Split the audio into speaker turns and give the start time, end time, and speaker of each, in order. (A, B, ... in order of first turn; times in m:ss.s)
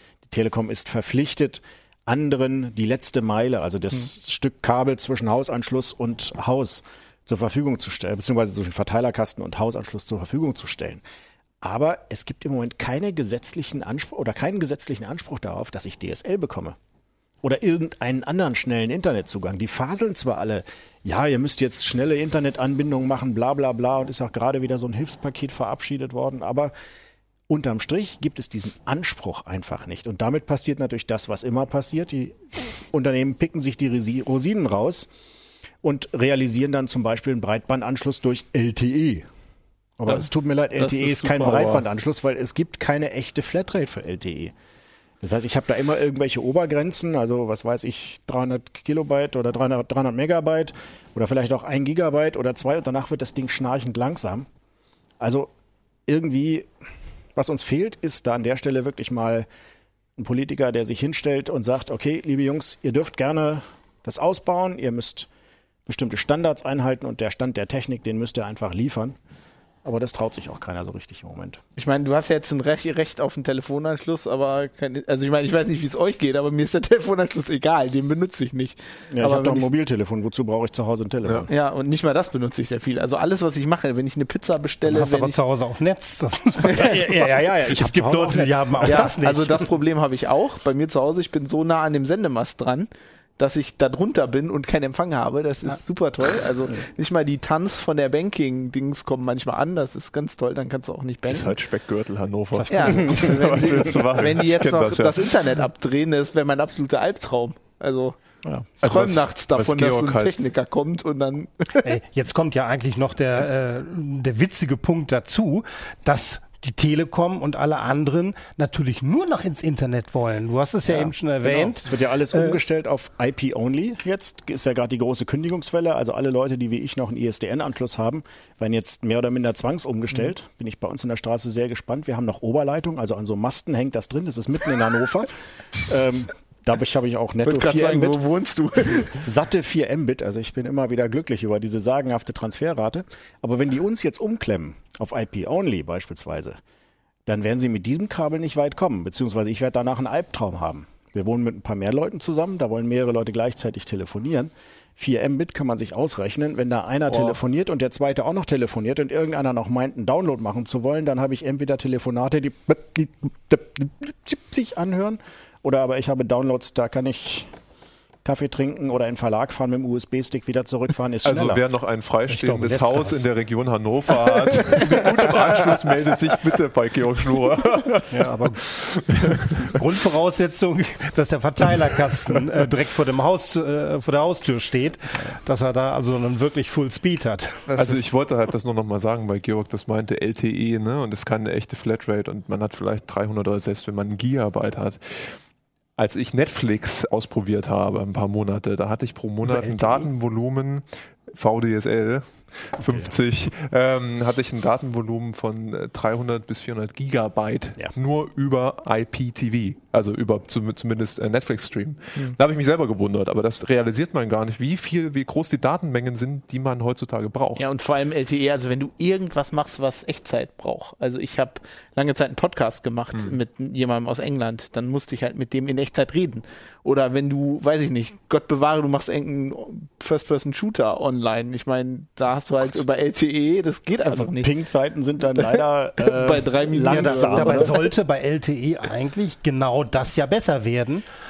0:00.3-0:11.0 A
0:11.6-0:16.8 A
0:17.4-0:26.7 A
0:27.5-0:35.1 A
0:35.8-0:39.3 A
0:40.0-0:44.5 A
0:40.8-0:41.8 B
0:45.2-0:54.5 A
0:55.2-0:55.5 A
0:56.1-0:56.7 A
0:57.4-0:59.5 A
1:00.2-1:05.3 A
1:05.9-1:09.2 A
1:09.8-1:11.6 A
1:11.8-1:19.7 B
1:19.1-1:21.5 A
1:21.5-1:25.4 B
1:24.9-1:29.7 C
1:26.6-1:27.0 B
1:26.6-1:29.1 A
1:28.8-1:41.6 B
1:41.3-1:45.6 D
1:42.5-1:43.4 C
1:42.7-1:48.2 B
1:48.8-1:50.4 D
1:48.8-1:51.9 B
1:51.8-2:02.6 C
2:00.9-2:18.2 A
2:17.4-2:19.2 B
2:19.2-2:26.6 A
2:27.3-2:47.5 A
2:48.2-2:51.6 A
2:51.2-2:59.8 D
2:52.3-2:53.2 C
2:54.7-2:55.4 B
2:58.1-2:58.6 C
2:59.5-3:07.7 C
3:07.7-3:08.0 B
3:07.8-3:15.4 D
3:16.0-3:37.6 D
3:22.8-3:23.1 A
3:37.6-3:54.5 B
3:43.1-3:43.4 D
3:54.0-3:57.7 A
3:55.4-3:57.8 B
3:56.8-4:01.0 C